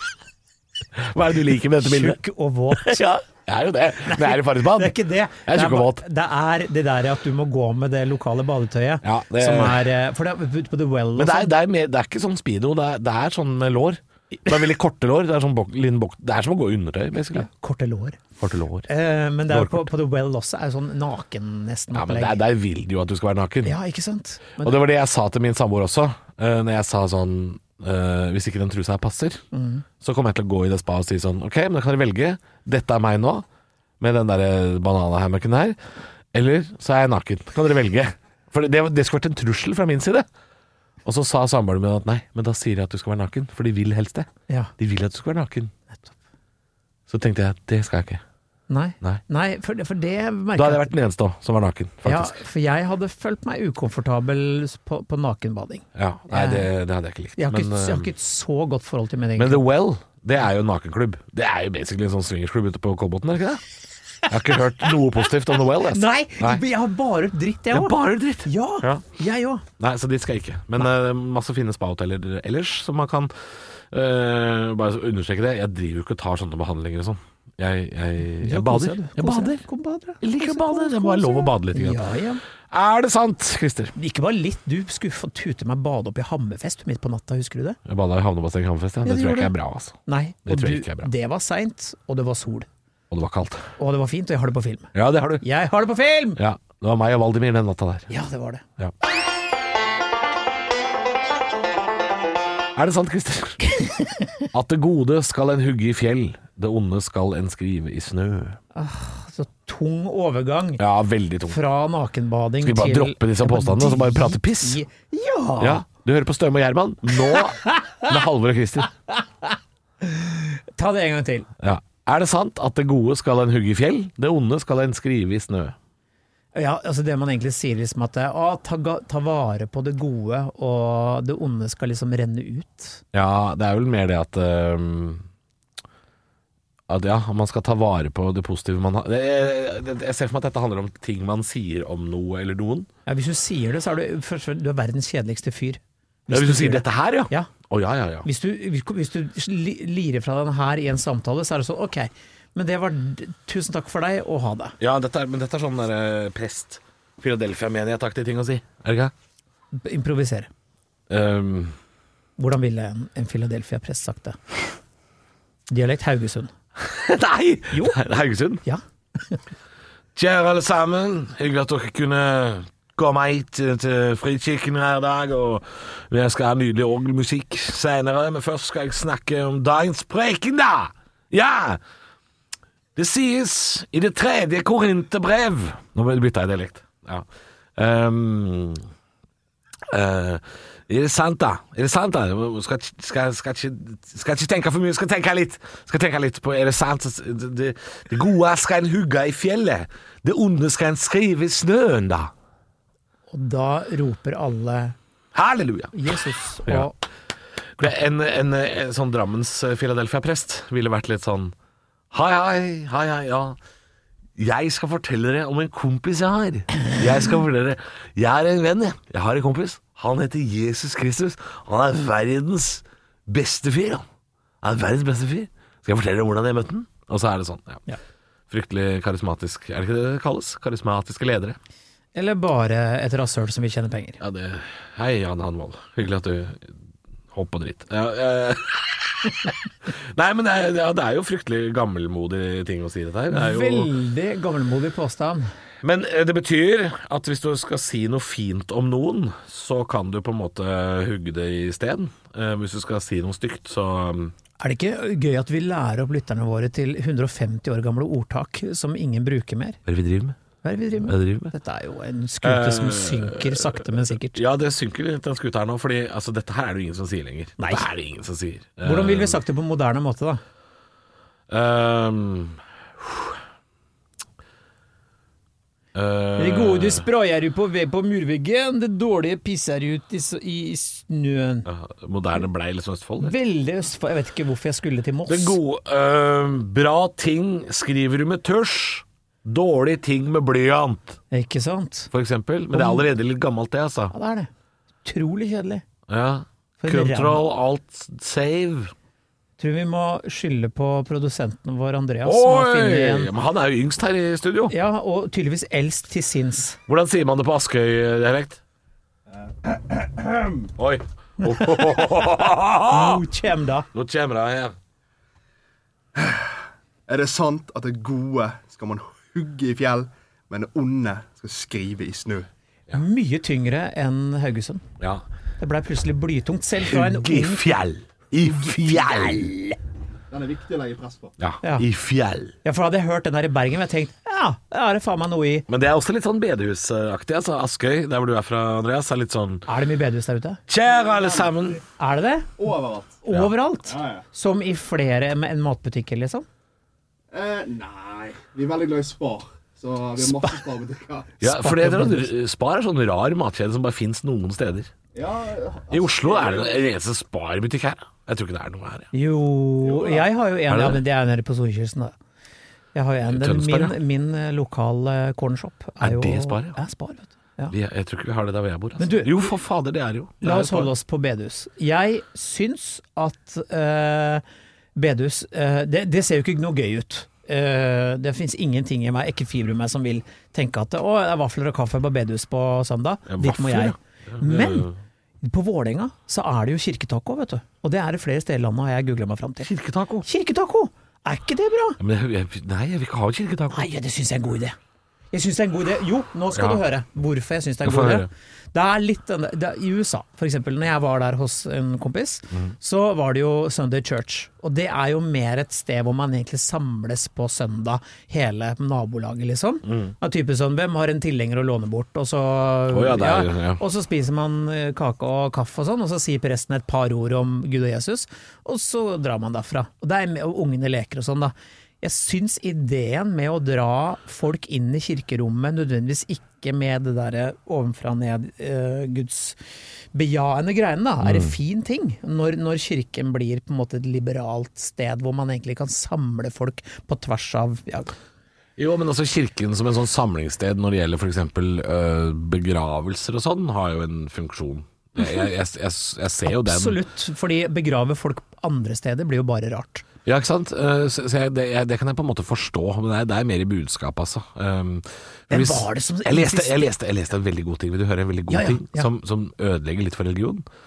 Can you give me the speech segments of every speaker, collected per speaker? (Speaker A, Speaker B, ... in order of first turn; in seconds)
Speaker A: 1.0-2.2, 2.7-6.0, 9.0-9.9, 11.2-17.5, 18.4-18.9, 19.5-19.9, 21.9-23.7, 24.6-29.4, 30.0-33.5, 34.0-35.8, 36.3-40.3, 41.0-45.7, 47.1-48.2, 50.6-52.4, 56.0-58.1, 59.4-63.6, 64.3-66.6, 67.7-69.0, 69.8-73.3, 73.9-79.6, 80.2-82.0, 82.7-83.9, 87.9-91.1, 93.1-93.7, 94.9-95.5, 96.4-98.1, 102.8-103.6, 104.5-108.6, 110.8-111.6, 112.6-114.8, 115.6-118.9, 121.6-125.8, 133.1-135.2, 136.9-142.9, 146.3-148.3, 154.8-159.1, 161.1-161.8, 166.8-168.6, 170.2-181.8, 183.0-188.8, 189.9-202.3, 205.3-206.9, 207.8-211.5, 212.1-213.6, 214.4-224.1, 224.6-227.9, 228.5-231.6, 234.2-236.8, 237.3-243.9, 245.8-254.3, 259.9-260.4, 261.0-261.5, 262.4-269.4, 271.5-273.4, 275.9-277.1, 281.7-283.4, 285.3-291.2, 292.1-294.1, 296.1-298.9, 302.2-304.8, 306.9-308.6, 310.8-313.2, 313.9-314.8, 325.0-325.2, 326.8-329.5, 331.4-332.6, 335.7-339.7, 340.7-341.8, 351.4-354.9, 355.9-359.1, 360.7-361.0, 363.3-364.0, 366.0-366.8, 367.7-370.9, 383.3-385.0, 389.6-390.3, 392.0-393.9, 396.5-396.8, 397.8-398.3, 409.9-410.1, 412.9-413.8, 431.2-431.6, 438.8-447.0, 450.2-460.6
Speaker B: 1.8-3.1, 4.1-11.5, 17.3-18.2, 18.9-22.4, 23.6-24.8, 29.5-29.9, 48.7-50.9, 52.0-56.7, 57.4-59.6, 65.8-69.7, 78.4-82.4, 84.0-87.8, 89.0-89.5, 90.1-92.7, 93.8-96.4, 98.1-98.6, 103.8-104.2, 108.8-110.8, 111.5-115.8, 117.3-118.1, 119.1-121.5, 126.5-133.0, 143.1-147.5, 148.2-154.8, 159.7-160.5, 162.4-164.4, 165.7-166.5, 167.7-168.0, 168.6-169.4, 203.3-205.0, 205.9-207.0, 232.2-234.2, 243.3-245.5, 254.6-259.8, 260.6-264.4, 267.6-267.9, 268.8-270.4, 276.4-281.7, 283.2-285.6, 291.3-292.1, 292.7-293.1, 294.1-294.5, 295.0-295.9, 296.8-297.4, 299.6-303.3, 304.7-306.8, 311.4-312.2, 312.8-313.9, 322.9-324.9, 325.6-327.8, 328.4-329.8, 332.6-335.7, 339.7-340.6, 342.0-342.6, 343.2-346.5, 351.4-352.3, 359.1-362.1, 362.9-367.8, 369.0-369.5, 370.4-374.4, 375.0-384.9, 385.4-389.7, 390.2-392.0, 393.7-394.8, 395.3-429.6, 430.1-438.1, 446.5-450.1, 455.5-456.9, 458.5-459.1
Speaker C: 309.7-310.7, 316.2-316.4, 317.1-322.5, 330.3-331.4, 340.9-341.8, 342.6-343.2, 343.9-344.2, 347.3-351.4, 355.1-356.8, 359.8-360.3